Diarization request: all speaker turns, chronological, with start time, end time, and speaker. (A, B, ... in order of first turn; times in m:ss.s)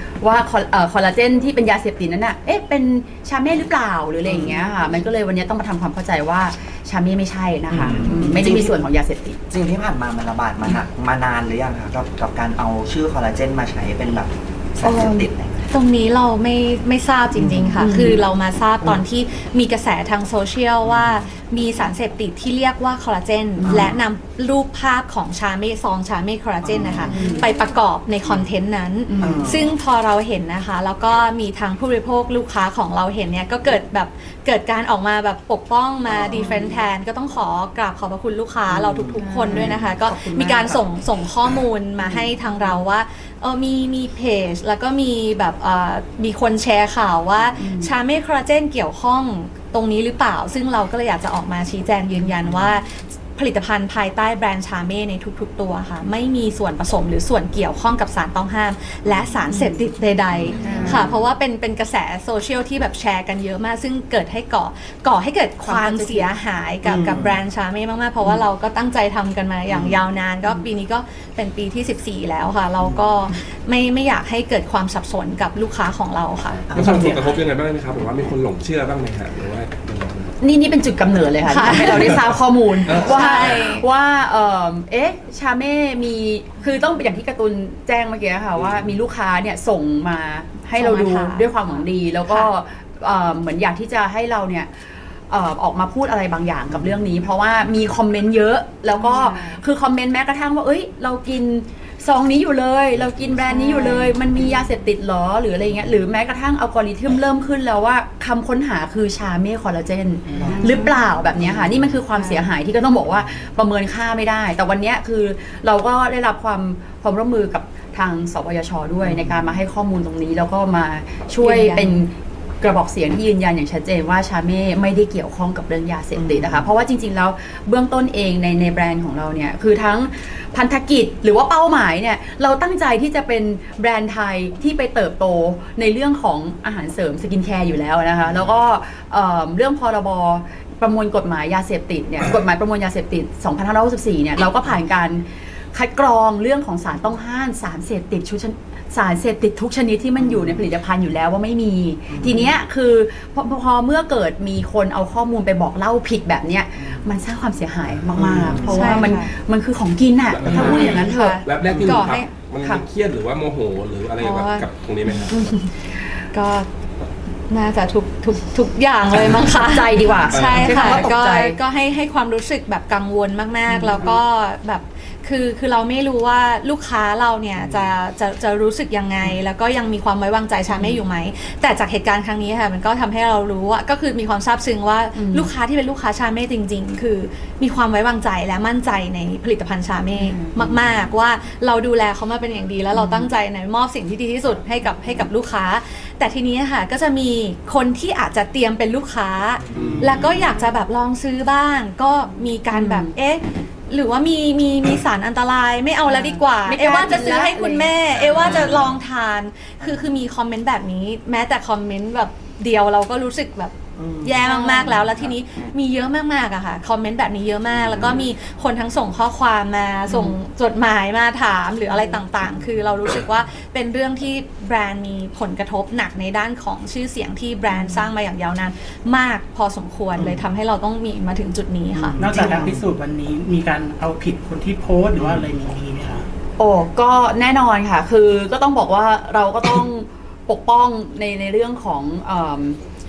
0:00.2-0:09.4 A
0:07.7-0:08.7 B
0:09.5-0:15.7 B
0:14.9-0:15.2 A
0:15.7-1:17.0 C
0:17.4-0:17.8 B
0:17.8-0:18.2 A
0:23.6-0:24.0 B
0:26.6-0:27.3 B
0:27.0-0:27.5 A
0:29.1-0:29.4 A
0:29.2-0:29.7 B
0:36.1-0:36.7 B
0:38.7-0:40.8 B
0:39.2-0:39.7 A
0:47.6-0:47.9 A
1:00.4-1:01.0 B
1:00.6-1:01.0 A
1:05.6-1:06.3 A
1:06.8-1:07.4 B
1:09.7-1:10.0 B
1:16.7-1:17.2 B
1:16.7-1:20.3 D
1:20.4-2:41.4 A
1:21.4-1:22.1 C
1:22.8-1:23.7 D
1:22.9-1:23.8 C
1:30.7-1:32.5 C
1:50.3-1:50.9 E
1:50.4-1:50.8 B
1:52.1-1:52.4 C
2:01.4-2:02.0 C
2:06.2-2:06.6 B
2:32.1-2:32.5 B
2:38.2-2:39.0 B
2:38.6-2:39.3 C
2:40.2-2:45.4 D
2:40.5-2:40.8 B
2:40.5-2:42.3 C
2:44.2-2:44.7 C
2:45.3-2:45.9 A
2:46.3-2:46.7 C
2:47.5-3:52.2 C
2:49.6-2:51.6 A
2:50.3-2:51.0 D
2:53.7-2:53.9 A
3:05.1-3:05.5 A
3:10.2-3:10.6 A
3:12.9-3:13.3 A
3:19.7-3:20.1 D
3:22.7-3:23.1 A
3:26.1-3:28.6 A
3:34.0-3:34.4 B
3:34.4-3:35.0 A
3:40.1-3:40.3 A
3:51.9-3:52.8 B
3:52.2-3:56.3 E
3:56.6-4:02.8 A